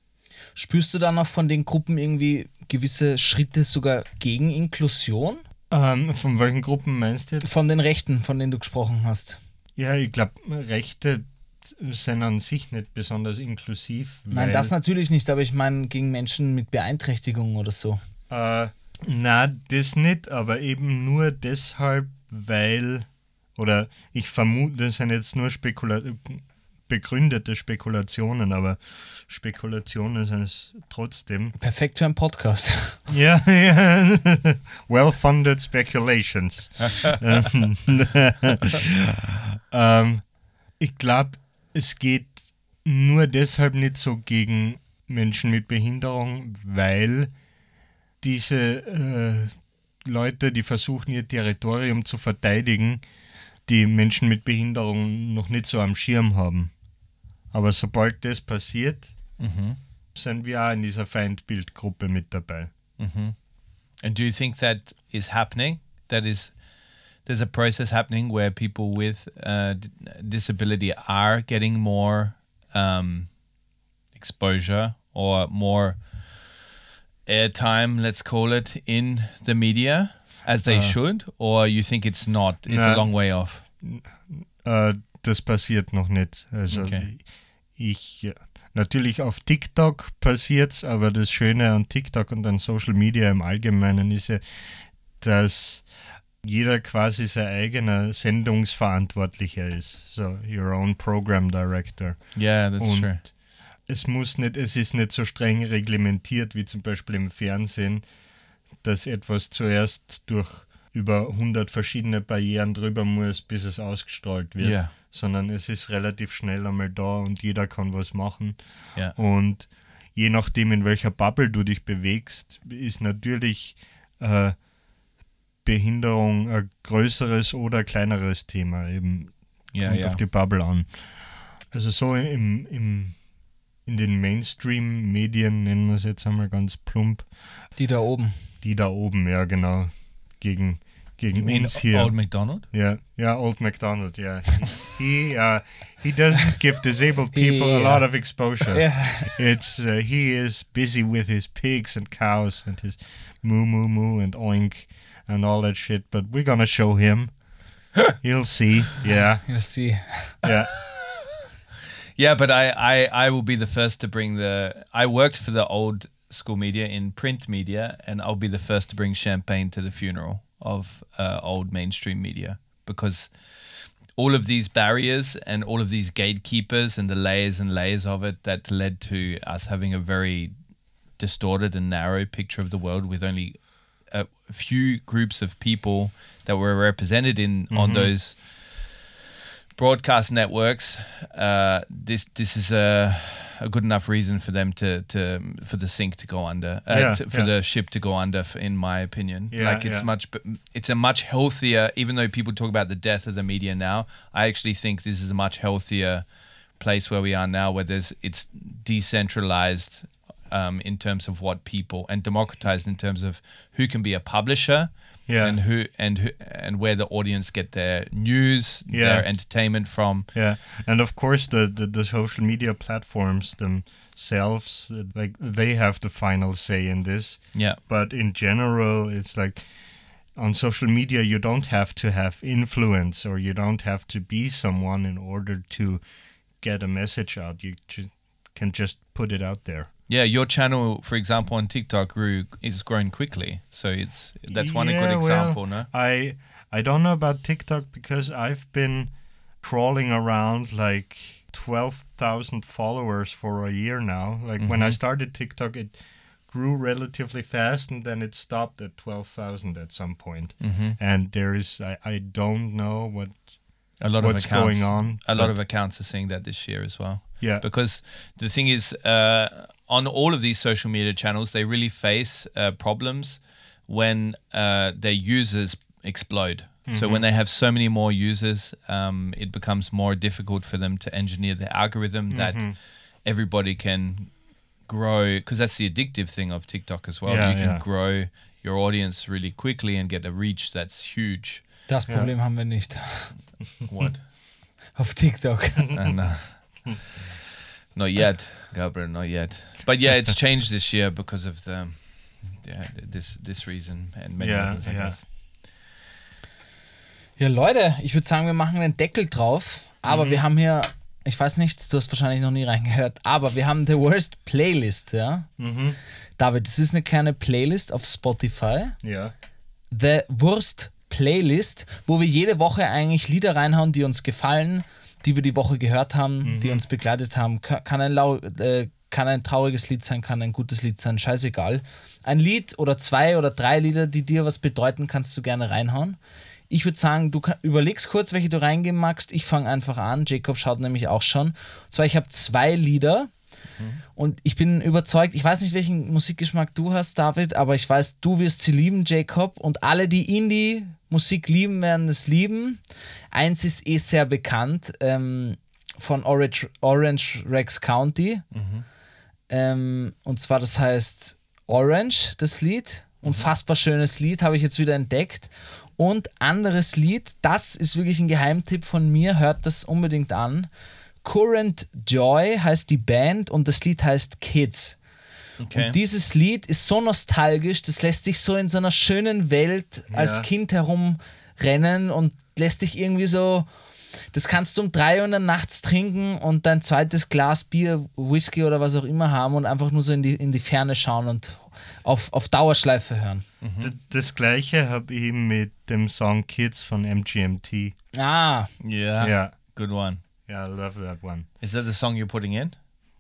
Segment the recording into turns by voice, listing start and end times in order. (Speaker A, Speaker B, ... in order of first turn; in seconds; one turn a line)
Speaker A: 0.6-5.4
Speaker B: 5.7-7.5
Speaker A: 7.4-9.4
Speaker B: 9.8-14.7
Speaker A: 14.3-18.0
Speaker B: 18.3-31.6
Speaker A: 31.6-33.0
Speaker B: 33.1-40.2
Speaker B: 40.8-47.3
Speaker B: 48.2-53.0
Speaker B: 53.7-56.7
Speaker B: 57.5-59.1
Speaker C: 59.4-59.8
Speaker B: 60.1-62.7
Speaker C: 63.0-63.4
Speaker C: 64.0-66.5
Speaker C: 67.3-73.3
Speaker C: 74.2-76.0
Speaker C: 77.3-83.6
Speaker B: 80.7-81.0
Speaker B: 82.7-83.1
Speaker B: 83.8-95.9
Speaker C: 86.7-87.0
Speaker B: 96.4-103.3
Speaker C: 102.3-103.2
Speaker B: 103.9-108.0
Speaker B: 108.8-124.6
Speaker C: 114.6-114.9
Speaker B: 125.6-130.9
Speaker C: 129.7-130.2
Speaker B: 131.7-133.2
Speaker B: 133.9-137.3
Speaker A: 137.8-138.3
Speaker B: 138.6-157.3
Speaker C: 141.4-142.7
Speaker A: 147.3-148.1
Speaker A: 148.7-149.3
Speaker B: 158.0-159.5
Speaker A: 159.5-160.4
Speaker B: 160.4-160.7
Speaker C: 160.5-161.2
Speaker C: 162.2-180.5
Speaker C: 181.2-188.9
Speaker B: 187.7-188.1
Speaker C: 189.8-206.3
Speaker B: 196.9-197.5
Speaker B: 199.5-200.1
Speaker C: 206.8-220.3
Speaker B: 215.3-215.6
Speaker B: 218.9-219.3
Speaker B: 220.3-229.6
Speaker C: 227.5-227.8
Speaker B: 230.3-236.0
Speaker B: 236.6-239.9
Speaker C: 240.1-245.9
Speaker B: 244.5-256.0
Speaker C: 254.6-255.0
Speaker B: 256.5-263.4
Speaker C: 260.6-261.0
Speaker C: 264.0-284.3
Speaker B: 264.2-265.6
Speaker B: 276.9-277.2
Speaker B: 282.3-282.7
Speaker C: 284.9-291.7
Speaker B: 287.3-287.8
Speaker A: 291.9-293.3
Speaker C: 293.9-294.3
Speaker A: 294.9-295.9
Speaker B: 295.9-296.2
Speaker C: 295.9-297.3
Speaker C: 297.9-305.2
Speaker B: 304.4-305.2
Speaker A: 307.4-315.5
Speaker B: 310.1-310.4
Speaker B: 315.6-316.0
Speaker A: 316.4-318.9
Speaker B: 319.0-319.3
Speaker A: 319.9-336.2
Speaker B: 326.4-326.8
Speaker A: 336.7-343.3
Speaker A: 344.2-352.8
Speaker A: 353.3-358.4
Speaker C: 358.5-358.9
Speaker A: 359.5-370.7
Speaker A: 371.2-375.0
Speaker C: 375.6-376.0
Speaker A: 375.7-383.7
Speaker B: 380.1-380.5
Speaker A: 384.3-393.4
Speaker C: 393.6-393.9
Speaker B: 393.8-397.9
Speaker A: 398.2-398.7
Speaker C: 398.8-400.2
Speaker B: 399.2-399.6
Speaker B: 400.4-401.5
Speaker C: 401.6-402.7